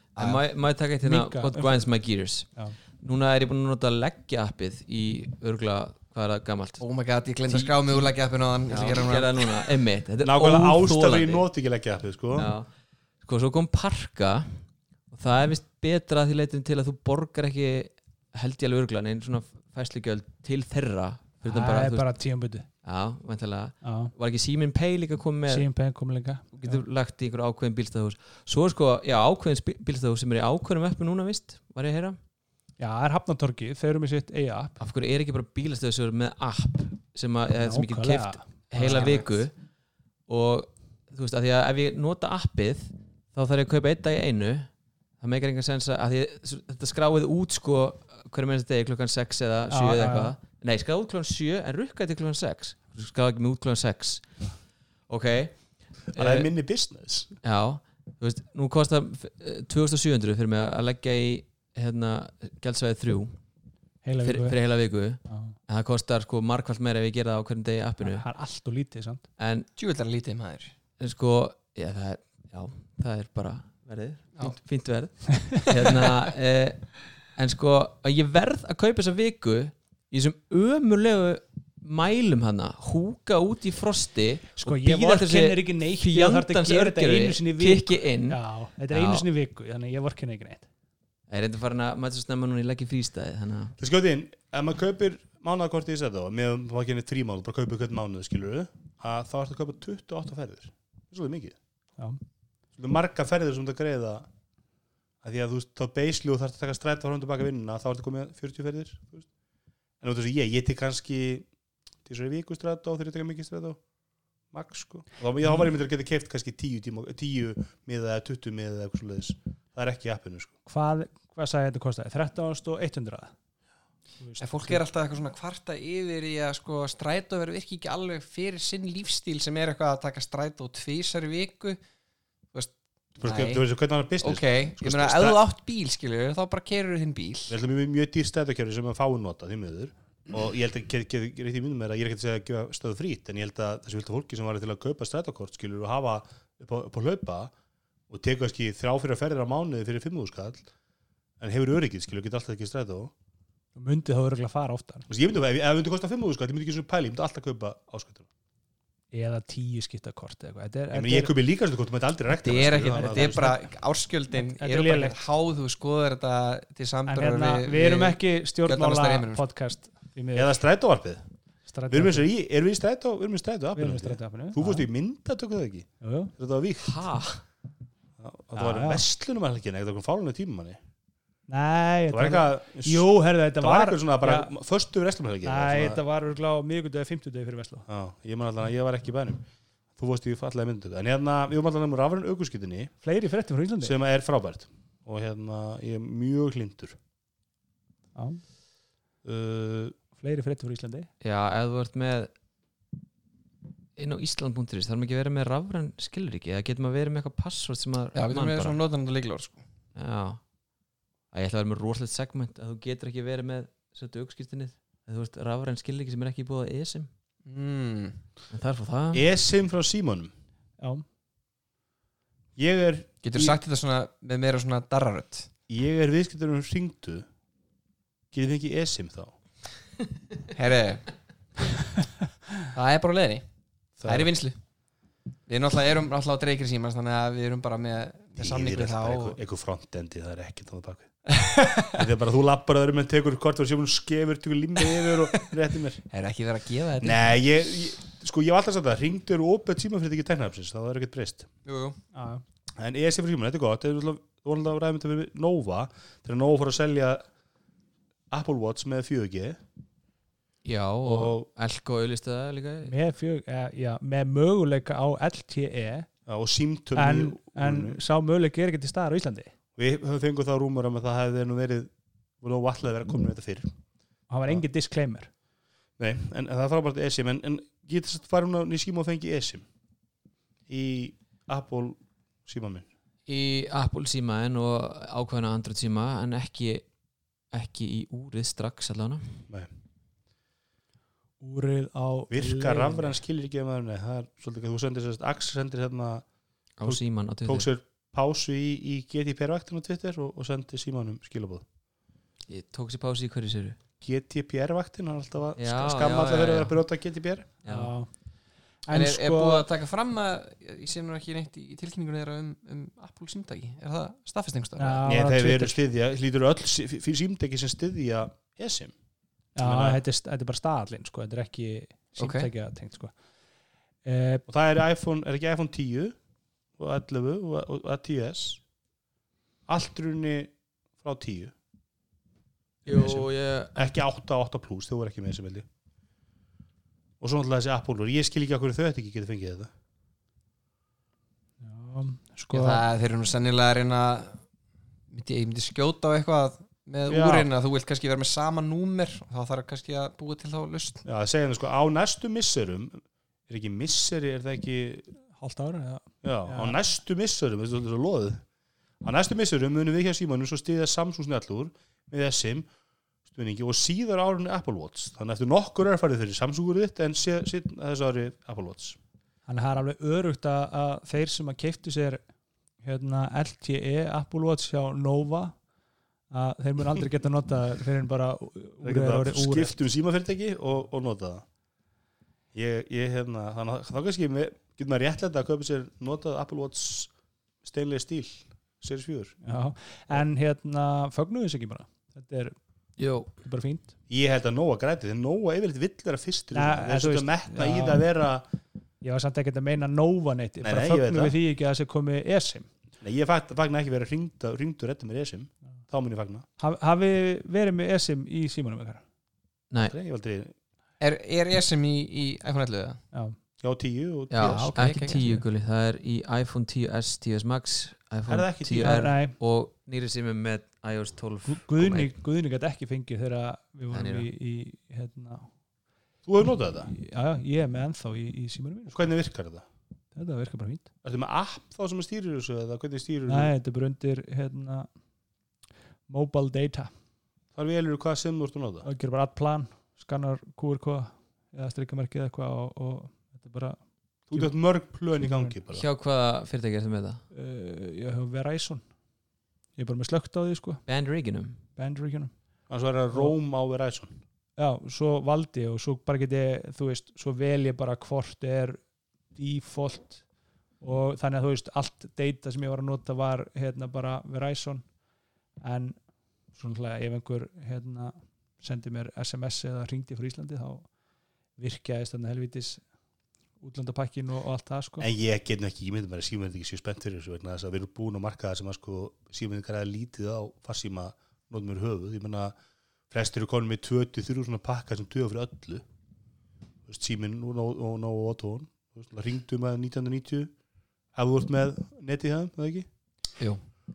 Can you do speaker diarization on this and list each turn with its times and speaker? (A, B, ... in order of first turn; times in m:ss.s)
0:00.2-0:00.4 A
0:00.2-0:06.8 B
0:01.0-0:01.8 C
0:06.8-0:09.7 A
0:07.5-0:11.5 B
0:10.2-0:12.5 D
0:12.3-0:12.7 B
0:13.2-0:22.1 B
0:21.4-0:22.7 C
0:22.8-0:25.7 B
0:23.8-0:24.1 C
0:25.5-0:26.8 C
0:26.5-0:32.2 B
0:32.8-0:34.8 C
0:34.8-0:39.5 B
0:37.5-0:39.2 C
0:38.8-0:39.3 A
0:40.3-0:56.5 B
0:49.7-0:50.4 C
0:56.1-0:57.4 D
0:57.4-1:03.4 B
1:04.0-1:04.6 C
1:04.2-1:08.3 B
1:05.2-1:05.6 C
1:08.0-1:09.2 C
1:09.4-1:09.7 B
1:09.7-1:10.7 A
1:11.0-1:29.2 B
1:15.9-1:16.1 A
1:24.6-1:30.7 C
1:31.3-1:33.8 B
1:33.8-1:41.6 D
1:42.8-1:44.3 D
1:45.2-1:49.3 D
1:50.0-1:51.5 D
1:52.0-1:53.8 D
1:54.5-2:00.5 D
2:00.6-2:03.3 C
2:04.2-2:04.8 C
2:04.4-2:11.8 A
2:12.5-2:13.6 A
2:13.2-2:15.4 D
2:14.2-2:17.6 A
2:17.5-2:27.5 D
2:28.1-2:30.7 D
2:31.4-2:33.1 D
2:33.7-2:35.1 C
2:35.1-2:38.3 D
2:39.1-2:41.3 C
2:40.9-2:43.5 D
2:42.3-2:49.4 A
2:42.9-2:43.7 C
2:44.3-2:45.2 C
2:47.1-2:50.6 C
2:50.3-2:51.3 D
2:51.7-2:52.3 C
2:51.9-2:57.1 D
2:53.7-2:54.8 C
2:56.0-2:56.3 C
2:56.8-2:57.4 B
2:58.2-3:00.8 D
2:58.5-2:59.0 C
3:01.5-3:04.5 C
3:02.1-3:06.0 D
3:05.4-3:07.9 C
3:07.9-3:09.4 D
3:10.0-3:12.9 D
3:13.0-3:13.9 C
3:13.8-3:17.0 D
3:18.1-3:18.4 C
3:19.2-3:20.0 D
3:20.1-3:21.1 C
3:21.2-3:22.3 B
3:24.0-3:28.8 B
3:28.1-3:29.6 A
3:29.9-3:30.4 B
3:31.3-3:37.1 B
3:37.4-3:38.2 A
3:38.5-3:39.2 B
3:39.1-3:40.3 D
3:40.8-3:41.0 C
3:42.6-3:43.6 D
3:43.2-3:45.5 A
3:45.7-3:47.2 D
3:48.3-3:49.4 D
3:50.5-3:51.2 A
3:52.7-3:53.4 A
3:54.0-3:54.3 D
3:54.0-3:54.6 A
3:55.5-3:59.4 A
3:58.4-4:06.0 D
4:06.1-4:07.2 A
4:07.0-4:11.5 D
4:11.6-4:12.0 A
4:12.1-4:12.4 C
4:12.8-4:17.2 D
4:18.3-4:19.6 D
4:20.6-4:22.9 B
4:21.0-4:21.5 D
4:22.8-4:26.1 C
4:26.3-4:28.0 D
4:26.9-4:29.5 C
4:29.8-4:33.7 D
4:34.3-4:35.3 C
4:36.0-4:39.6 D
4:40.7-4:42.9 D
4:43.3-4:46.9 B
4:47.5-4:49.4 B
4:51.4-4:53.2 C
4:52.3-4:56.2 D
4:56.8-4:57.7 B
4:56.8-5:01.6 D
5:02.5-5:03.8 B
5:04.0-5:07.5 D
5:05.6-5:06.8 B
5:07.6-5:07.9 B
5:07.6-5:08.2 C
5:08.8-5:09.7 C
5:08.9-5:15.0 A
5:14.8-5:15.8 C
5:15.0-5:18.9 D
5:19.6-5:23.2 C
5:19.6-5:20.0 D
5:22.2-5:22.5 A
5:24.0-5:24.4 C
5:24.5-5:26.2 D
5:26.8-5:28.6 D
5:29.7-5:31.5 D
5:32.8-5:33.8 B
5:32.8-5:35.6 D
5:37.2-5:39.7 D
5:41.6-5:42.8 C
5:42.5-5:44.4 A
5:45.1-5:51.0 A
5:47.0-5:47.5 D
5:51.0-5:55.1 D
5:55.3-5:56.8 C
5:56.2-5:58.4 D
5:59.0-6:02.7 D
6:03.3-6:09.0 D
6:09.5-6:12.2 C
6:12.8-6:15.6 C
6:16.3-6:19.8 C
6:18.8-6:21.4 D
6:22.5-6:29.4 D
6:29.4-6:32.5 C
6:33.0-6:33.3 B
6:33.4-6:33.9 C
6:34.1-6:38.5 D
6:36.5-6:38.0 C
6:39.0-6:42.7 C
6:40.6-6:41.4 D
6:43.0-6:46.4 D
6:46.6-6:49.0 C
6:49.9-6:50.5 D
6:51.0-6:53.0 A
6:53.1-6:53.4 C
6:53.6-6:54.8 D
6:54.3-7:02.1 B
6:54.4-6:55.2 A
6:55.0-6:55.4 C
6:58.3-6:59.1 D
6:58.8-6:59.4 C
7:01.4-7:05.5 C
7:03.9-7:04.3 B
7:06.2-7:06.9 D
7:06.8-7:09.1 C
7:08.9-7:09.6 D
7:10.1-7:10.9 C
7:11.0-7:13.5 D
7:13.3-7:14.9 C
7:16.1-7:16.9 C
7:17.6-7:18.8 D
7:18.8-7:23.8 C
7:24.3-7:25.8 D
7:25.2-7:25.5 C
7:25.7-7:27.2 B
7:27.3-7:28.8 C
7:29.8-7:30.8 C
7:30.9-7:31.6 B
7:31.8-7:32.3 C
7:32.7-7:34.2 D
7:34.6-7:38.8 C
7:39.3-7:40.2 C
7:40.8-7:44.9 C
7:45.6-7:50.9 C
7:51.6-7:52.8 C
7:53.6-7:55.1 C
7:55.0-8:02.5 D
8:03.1-8:05.8 D
8:06.8-8:10.5 D
8:11.1-8:12.9 D